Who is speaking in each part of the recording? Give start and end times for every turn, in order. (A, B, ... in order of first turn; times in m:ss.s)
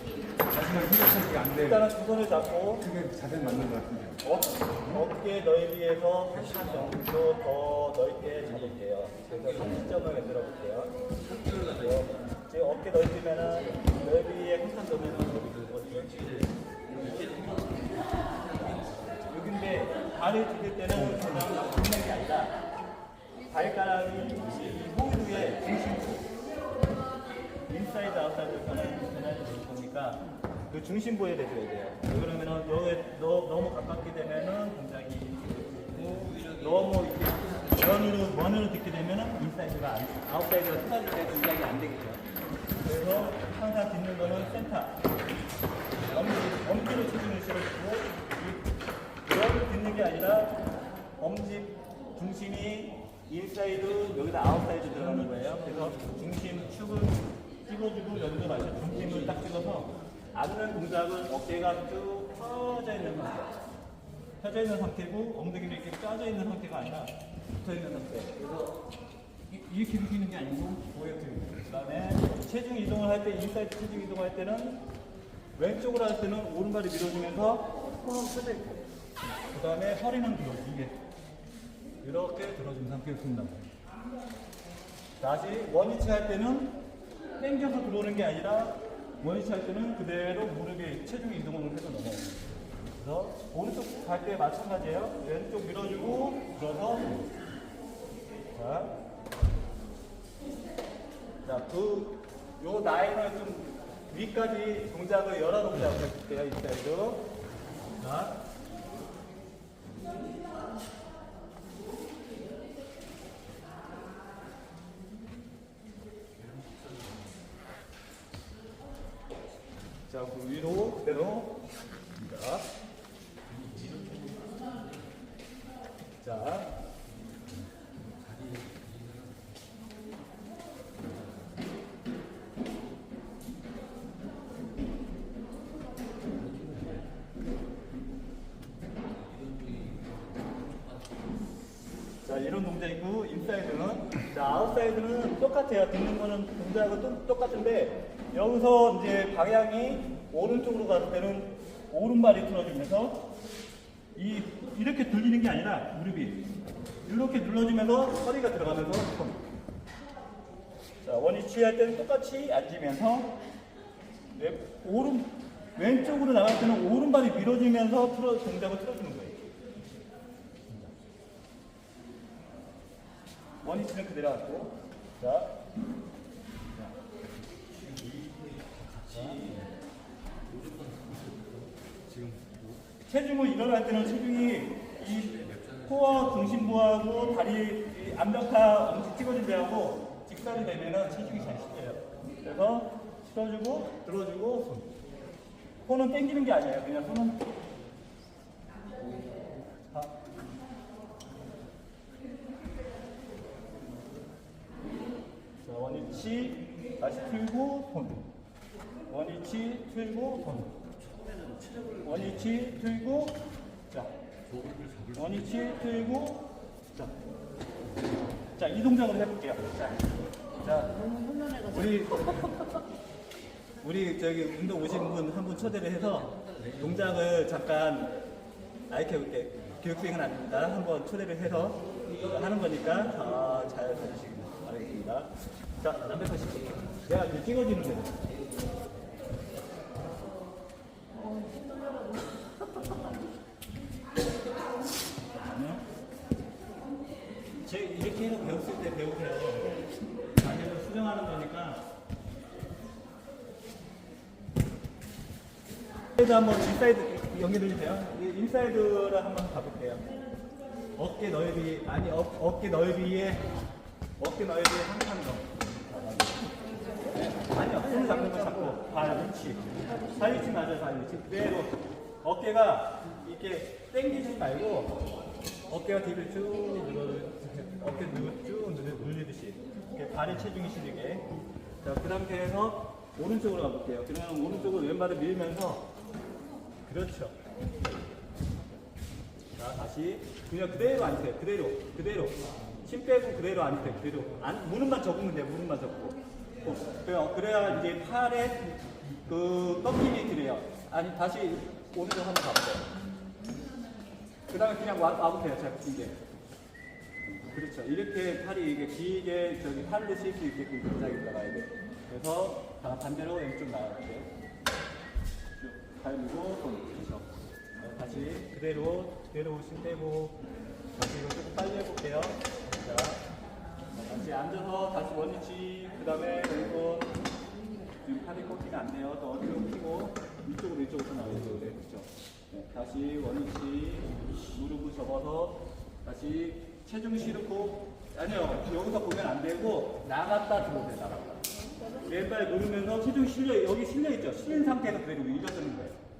0:00.5-0:01.5 A
0:01.2-0:03.1 B
0:02.9-0:04.1 A
0:04.2-0:10.9 B
0:11.6-0:16.5 B
0:19.1-0:22.6 B
0:23.5-0:26.3 B
0:27.6-0:42.2 B
0:42.8-0:45.0 B
0:46.1-0:48.6 B
0:49.2-0:50.6 B
0:51.2-1:03.6 B
1:04.4-1:08.7 B
1:09.5-1:14.8 B
1:15.6-1:18.8 B
1:19.5-1:20.9 B
1:22.0-1:23.7 B
1:25.2-1:26.7 B
1:27.4-1:32.4 B
1:33.0-1:37.2 B
1:38.5-1:38.9 B
1:41.4-1:47.2 B
1:48.0-1:48.4 B
2:00.1-2:01.6 B
2:02.2-2:02.6 B
2:03.7-2:04.7 A
2:06.2-2:06.8 B
2:08.3-2:09.4 A
2:16.5-2:17.0 A
2:19.3-2:20.3 A
2:22.2-2:33.2 B
2:34.1-2:36.5 B
2:37.0-2:39.4 B
2:41.0-2:43.3 B
2:44.3-2:49.5 B
2:53.6-2:55.5 B
2:58.7-2:59.7 B
3:00.5-3:01.7 A
3:02.1-3:02.4 B
3:03.0-3:14.9 B
3:15.8-3:17.4 B
3:25.6-3:28.2 B
3:29.1-3:30.8 B
3:31.4-3:31.9 A
3:32.0-3:34.1 B
3:34.6-3:35.1 A
3:35.1-3:37.1 B
3:38.5-3:40.0 B
3:40.6-3:42.8 B
3:43.8-3:48.1 B
3:48.9-3:58.2 B
4:05.3-4:05.8 B
4:07.6-4:09.8 B
4:10.4-4:11.9 B
4:16.2-4:20.0 B
4:21.0-4:23.5 B
4:24.2-4:26.5 B
4:27.1-4:35.0 B
4:35.7-4:41.2 B
4:41.8-4:45.9 B
4:46.8-4:48.4 B
4:49.6-4:58.6 B
4:59.2-5:02.9 B
5:04.5-5:06.2 B
5:07.2-5:14.3 B
5:15.6-5:20.4 B
5:20.9-5:23.2 B
5:23.9-5:27.1 B
5:28.0-5:46.0 B